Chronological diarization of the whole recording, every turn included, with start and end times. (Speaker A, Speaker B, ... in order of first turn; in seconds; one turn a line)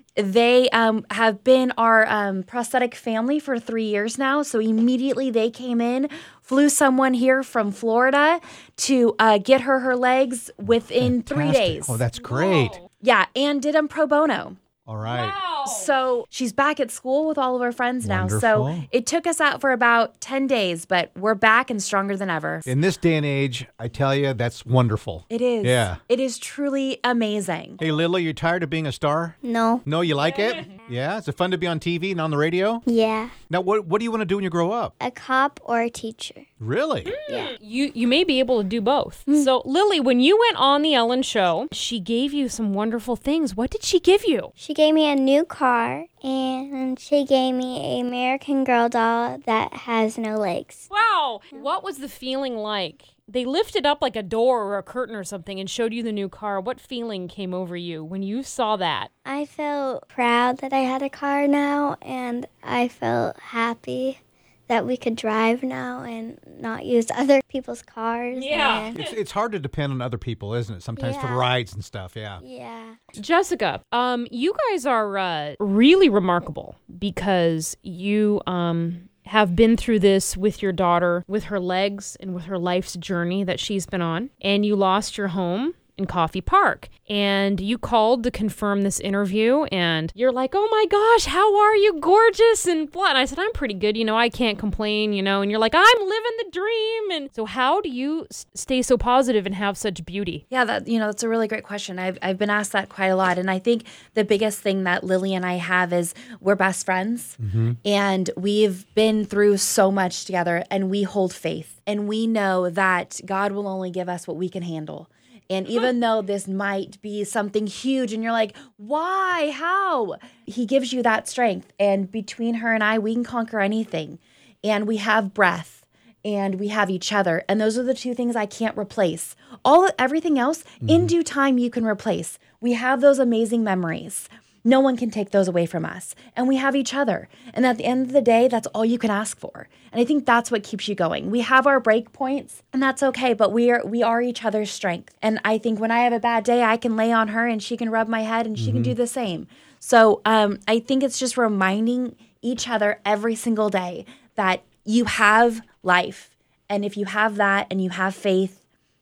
Speaker A: 0.2-12.0
Speaker B: 10.7-12.8
Speaker C: 12.1-12.9
Speaker A: 13.0-14.6
Speaker B: 14.8-15.4
Speaker C: 15.0-15.9
Speaker A: 15.6-22.7
Speaker B: 18.0-18.9
Speaker B: 22.6-26.0
Speaker A: 25.3-27.8
Speaker B: 27.8-32.8
Speaker D: 29.4-29.8
Speaker C: 30.2-30.7
Speaker D: 32.9-33.3
Speaker B: 33.5-34.9
Speaker D: 35.0-36.5
Speaker B: 36.6-37.1
Speaker C: 37.0-44.5
Speaker D: 37.3-37.5
Speaker D: 44.6-50.9
Speaker C: 50.9-59.1
Speaker D: 59.2-69.0
Speaker C: 68.3-68.9
Speaker B: 68.9-72.4
Speaker D: 71.0-71.5
Speaker D: 72.4-73.0
Speaker C: 73.1-100.4
Speaker A: 100.5-158.6
Speaker B: 107.4-107.8
Speaker B: 130.8-131.1
Speaker B: 148.6-148.9